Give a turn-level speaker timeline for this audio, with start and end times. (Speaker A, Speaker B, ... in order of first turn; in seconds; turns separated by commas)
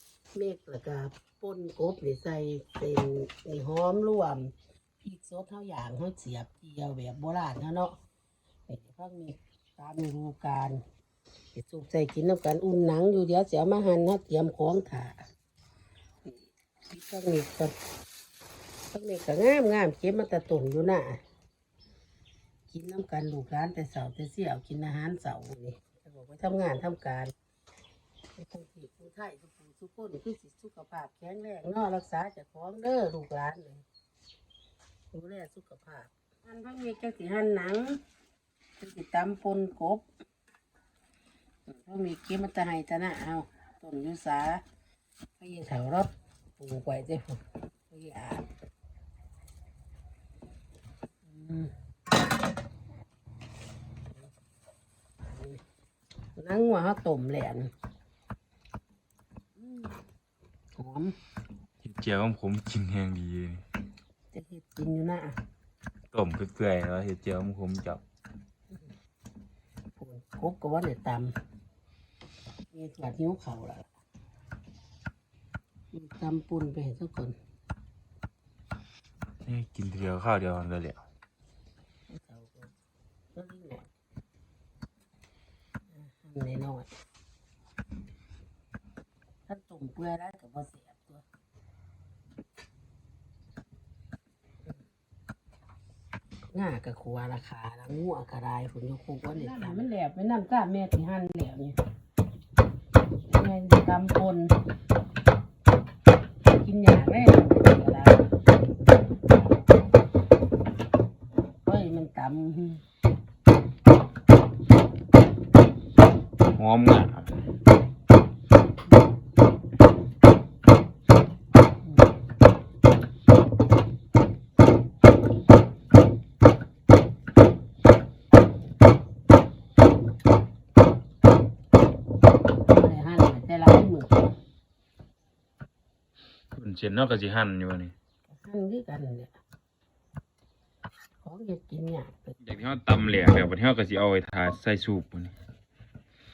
Speaker A: 0.3-7.9, Speaker A: 8.7-10.8, Speaker A: 11.5-15.2, Speaker A: 16.2-17.8, Speaker A: 18.9-21.2, Speaker A: 22.7-27.3, Speaker A: 28.4-33.8, Speaker A: 35.1-38.0, Speaker A: 38.8-40.0, Speaker A: 41.6-44.6, Speaker A: 45.4-48.5, Speaker A: 51.2-51.7, Speaker A: 55.3-55.6, Speaker A: 56.4-57.7, Speaker A: 59.6-59.9, Speaker A: 60.8-61.1, Speaker B: 61.8-63.6, Speaker A: 64.3-65.4, Speaker B: 66.1-68.0, Speaker A: 70.0-71.3, Speaker A: 72.7-73.9, Speaker A: 75.9-77.4, Speaker B: 79.5-81.0, Speaker A: 82.1-82.7, Speaker A: 83.3-83.9, Speaker A: 85.9-86.9, Speaker A: 89.5-91.2, Speaker A: 96.5-101.8, Speaker A: 103.3-104.5, Speaker A: 106.5-108.3, Speaker A: 111.7-112.8, Speaker B: 116.5-117.4, Speaker A: 132.7-134.2, Speaker B: 136.5-137.9, Speaker A: 138.3-139.4, Speaker A: 141.2-142.4, Speaker B: 142.4-145.3